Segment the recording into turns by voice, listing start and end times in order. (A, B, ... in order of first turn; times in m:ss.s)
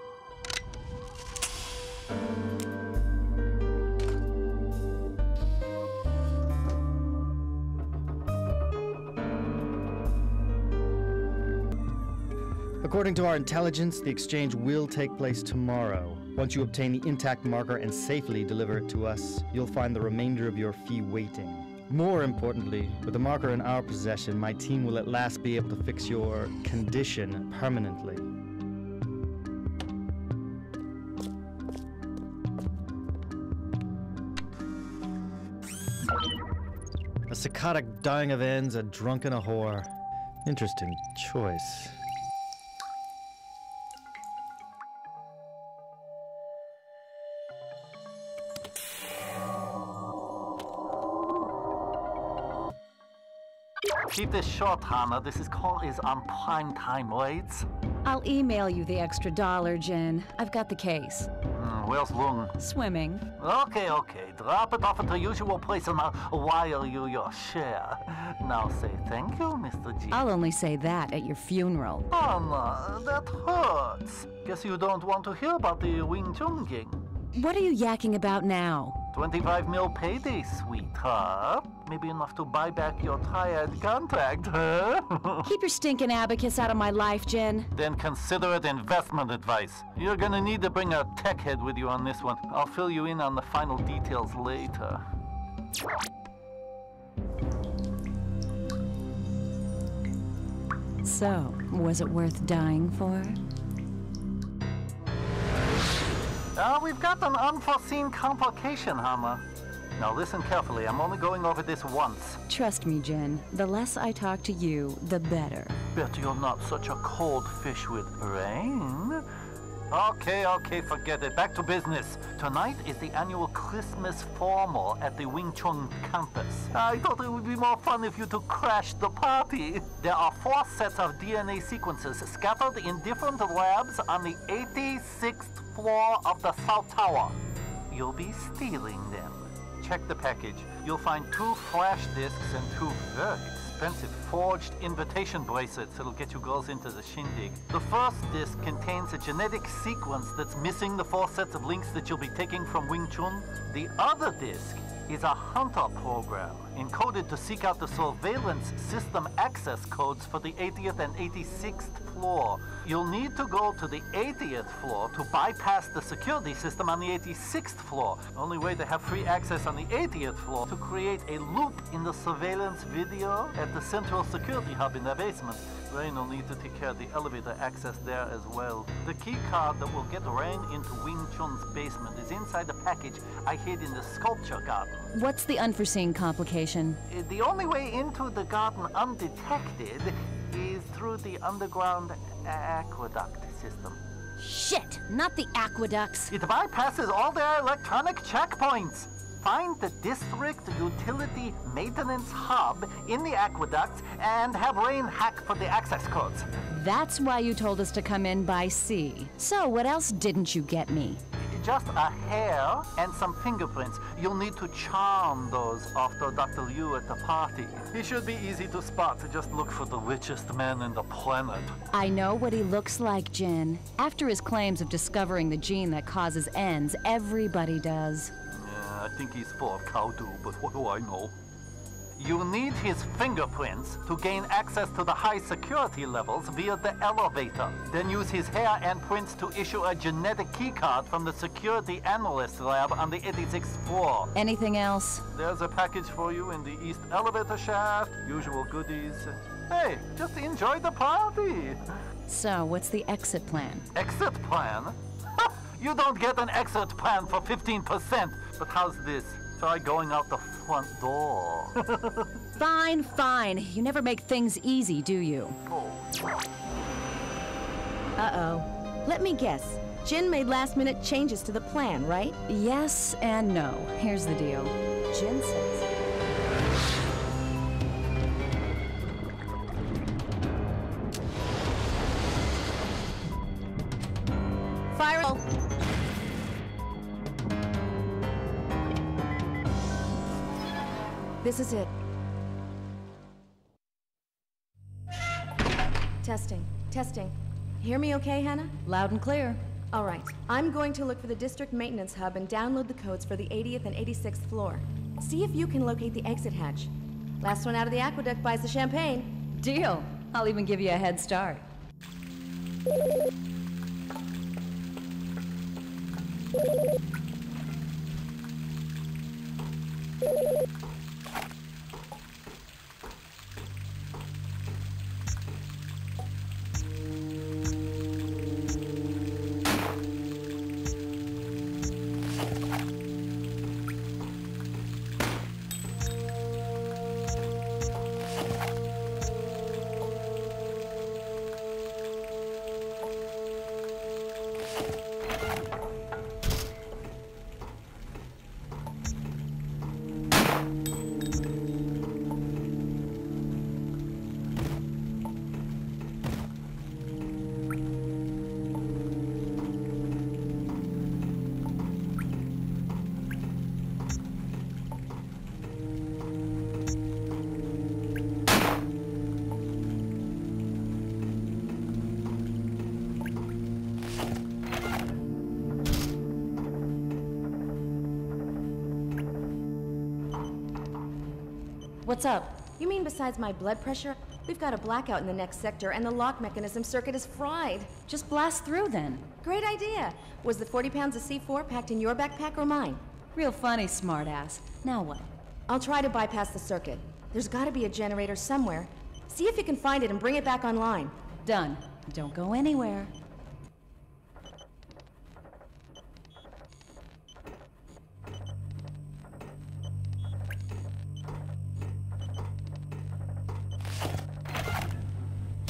0:12.8-0:28.3 A
0:37.3-0:39.9 A
0:40.4-0:42.0 A
0:54.1-0:57.7 B
0:58.0-1:01.3 C
1:01.5-1:02.6 B
1:02.6-1:03.3 C
1:03.4-1:10.3 B
1:10.1-1:12.1 C
1:12.1-1:17.0 B
1:17.3-1:19.0 C
1:19.1-1:25.5 B
1:25.4-1:27.7 C
1:27.7-1:35.0 B
1:41.0-1:43.4 C
1:46.6-1:49.4 B
1:50.0-1:52.4 B
1:52.5-1:55.8 C
1:56.0-1:59.3 B
1:59.9-2:17.4 B
2:17.9-3:05.1 B
3:05.1-3:07.0 C
3:07.1-3:14.0 B
3:14.4-3:16.3 C
3:16.3-3:26.5 B
3:26.7-3:31.2 C
3:31.4-3:41.8 B
3:41.9-3:48.3 C
3:48.5-3:51.4 B
3:52.2-4:04.3 B
4:04.4-4:05.2 C
4:05.3-4:12.0 B
4:12.3-4:13.9 C
4:14.0-4:22.3 B
4:22.6-4:25.6 C
4:25.7-4:26.0 B
4:28.2-4:32.4 D
4:32.5-4:35.9 C
4:44.9-4:45.4 D
4:51.4-4:51.9 D
4:56.2-4:58.7 D
4:58.8-4:59.6 C
4:59.9-5:06.9 D
5:07.4-5:09.3 D
5:09.5-5:11.6 C
6:22.0-6:22.6 C
6:22.8-6:27.9 D
6:28.1-6:29.3 C
6:29.4-6:33.0 D
6:33.3-6:35.3 C
6:35.7-6:41.1 D
6:41.4-6:43.1 C